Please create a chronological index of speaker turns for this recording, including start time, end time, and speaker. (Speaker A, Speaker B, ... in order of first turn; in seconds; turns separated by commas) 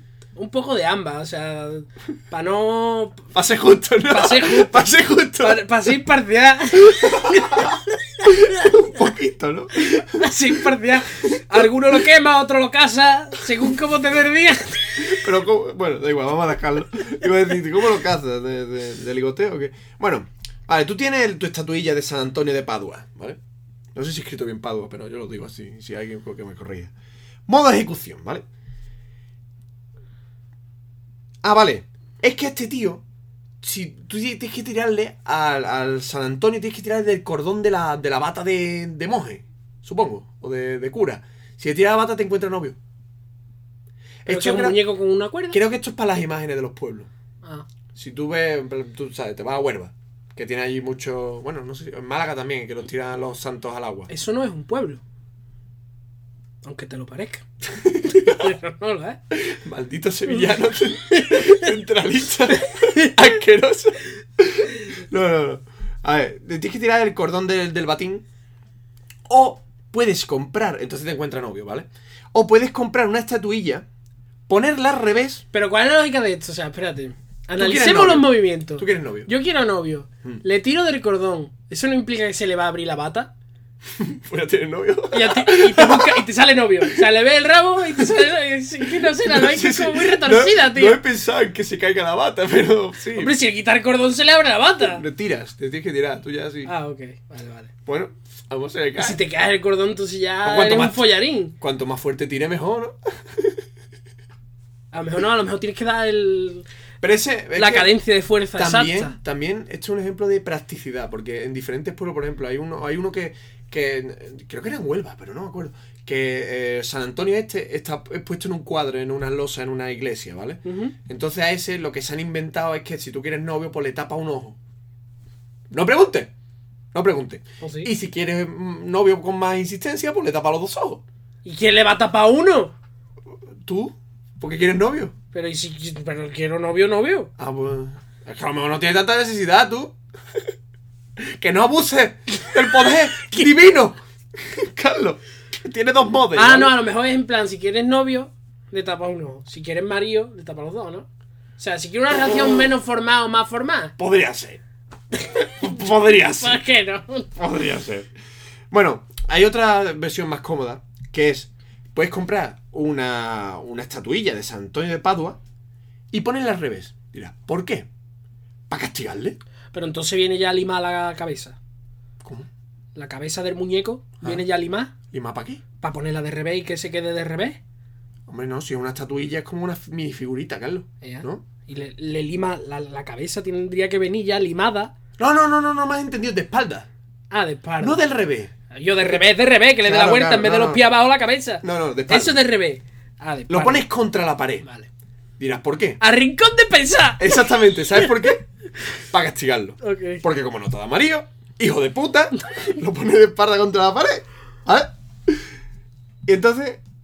Speaker A: 0.3-3.2, Speaker B: 3.3-5.6, Speaker A: 4.1-9.0, Speaker B: 6.9-10.6, Speaker A: 9.7-15.1, Speaker B: 11.3-11.6, Speaker B: 15.0-23.4, Speaker B: 23.9-26.9, Speaker B: 27.5-28.4, Speaker B: 31.4-33.0, Speaker B: 33.6-42.8, Speaker B: 44.2-44.8, Speaker A: 44.3-45.6, Speaker B: 45.5-47.1, Speaker B: 47.9-54.1, Speaker A: 54.1-55.0, Speaker A: 56.6-57.4, Speaker B: 57.7-58.5, Speaker A: 58.0-59.2, Speaker B: 59.3-68.2, Speaker A: 61.1-61.7, Speaker A: 62.8-63.1, Speaker B: 69.3-73.8, Speaker B: 74.5-75.4, Speaker A: 75.5-83.3, Speaker B: 77.6-79.3, Speaker B: 83.9-86.2, Speaker A: 85.1-91.0, Speaker B: 89.0-93.3, Speaker A: 93.1-95.0, Speaker B: 94.8-96.7, Speaker A: 96.7-97.7, Speaker B: 97.8-99.2, Speaker A: 99.0-101.5, Speaker B: 100.4-101.1, Speaker B: 101.6-103.6, Speaker A: 104.9-106.7, Speaker B: 107.0-107.9, Speaker A: 107.5-109.2, Speaker B: 108.5-124.6, Speaker A: 120.6-120.9, Speaker B: 125.7-126.3, Speaker B: 126.9-131.0, Speaker A: 127.6-127.9, Speaker A: 131.4-132.7, Speaker B: 133.6-135.1, Speaker A: 135.3-137.3, Speaker B: 137.4-139.9, Speaker B: 141.2-146.8, Speaker A: 146.3-151.1, Speaker A: 151.6-153.9, Speaker B: 154.0-154.6, Speaker B: 155.4-156.6, Speaker A: 156.4-157.4, Speaker B: 157.3-158.1, Speaker B: 158.7-165.4, Speaker B: 166.1-167.9, Speaker B: 168.7-169.4, Speaker A: 169.7-171.6, Speaker B: 172.2-172.5, Speaker A: 172.9-174.9, Speaker B: 175.1-175.6, Speaker A: 175.8-177.6, Speaker B: 178.3-181.4, Speaker A: 181.0-184.9, Speaker B: 185.2-186.9, Speaker A: 187.3-188.0, Speaker B: 187.8-188.5, Speaker A: 188.7-193.8, Speaker B: 189.8-190.8, Speaker B: 191.6-192.4, Speaker B: 193.5-194.7, Speaker B: 195.4-196.0, Speaker A: 196.0-198.1, Speaker B: 197.2-205.5, Speaker A: 199.8-200.2, Speaker B: 206.2-206.8